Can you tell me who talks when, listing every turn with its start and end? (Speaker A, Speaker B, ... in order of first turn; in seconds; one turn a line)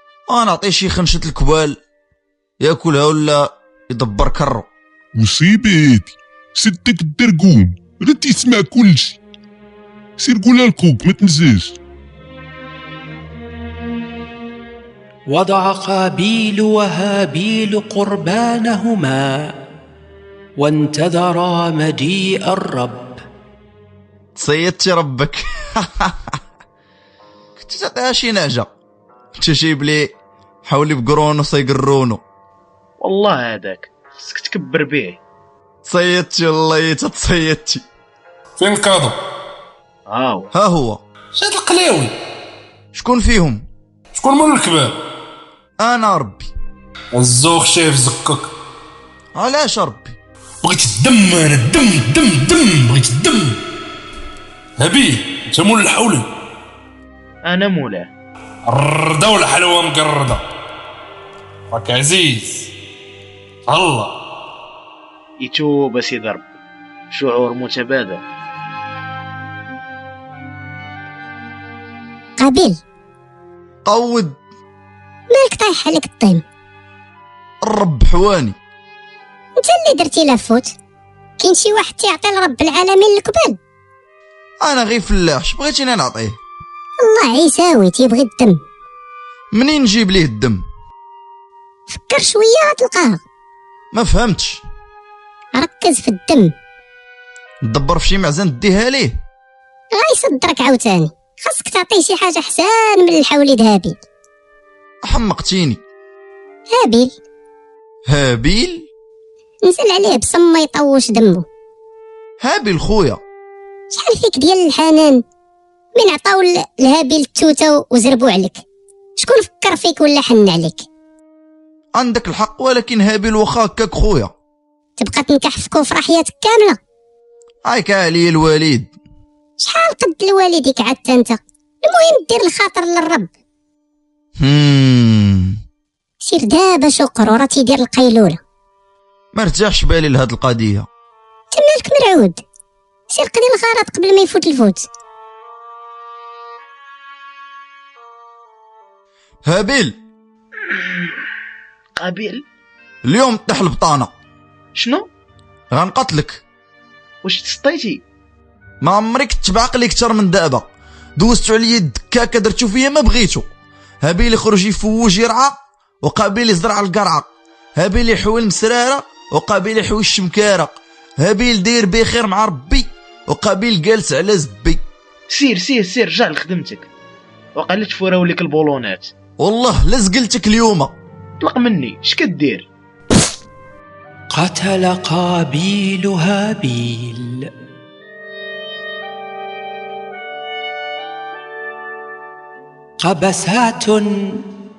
Speaker A: 0.3-1.8
Speaker A: 2.6-4.7
Speaker B: 5.2-9.2
Speaker B: 10.2-11.8
Speaker C: 15.3-19.5
Speaker C: 20.6-23.2
Speaker A: 24.4-26.3
Speaker A: 27.6-28.7
Speaker A: 29.4-30.1
Speaker A: 30.6-32.2
Speaker D: 33.0-35.2
Speaker A: 35.9-37.8
Speaker E: 38.6-39.1
Speaker D: 40.1-40.5
Speaker A: 40.5-41.0
Speaker E: 41.4-42.1
Speaker A: 42.9-43.6
Speaker E: 44.1-45.0
Speaker A: 45.8-46.5
Speaker E: 47.1-48.5
Speaker A: 49.4-50.1
Speaker E: 50.6-53.6
Speaker E: 54.8-56.2
Speaker D: 57.4-58.1
Speaker E: 58.6-60.4
Speaker E: 61.7-62.7
Speaker E: 63.7-64.1
Speaker D: 65.4-66.5
Speaker D: 67.1-68.2
Speaker F: 72.4-72.8
Speaker A: 73.8-74.4
Speaker F: 75.3-76.4
Speaker A: 77.6-78.5
Speaker F: 79.6-80.7
Speaker F: 81.4-83.6
Speaker A: 84.6-86.4
Speaker F: 87.0-88.6
Speaker A: 89.5-90.6
Speaker F: 91.9-93.2
Speaker A: 93.9-94.6
Speaker F: 95.6-96.5
Speaker A: 97.7-99.1
Speaker F: 99.9-104.0
Speaker A: 105.0-105.8
Speaker F: 106.7-107.1
Speaker A: 108.1-108.9
Speaker F: 109.6-111.4
Speaker A: 112.4-113.2
Speaker F: 113.9-115.2
Speaker F: 115.9-118.6
Speaker F: 119.2-120.8
Speaker A: 122.0-124.3
Speaker F: 125.0-126.8
Speaker A: 127.7-128.9
Speaker F: 129.6-133.3
Speaker A: 134.4-135.6
Speaker F: 136.2-138.4
Speaker A: 139.3-140.9
Speaker F: 141.5-142.4
Speaker F: 143.1-144.9
Speaker A: 149.4-150.0
Speaker D: 152.0-152.4
Speaker A: 153.1-154.1
Speaker D: 154.8-155.1
Speaker A: 155.7-156.4
Speaker D: 157.2-158.0
Speaker A: 158.8-163.5
Speaker A: 164.0-174.8
Speaker D: 175.3-176.9
Speaker D: 177.6-179.1
Speaker A: 179.4-180.9
Speaker D: 181.4-182.7
Speaker C: 184.3-187.5
Speaker C: 193.0-194.4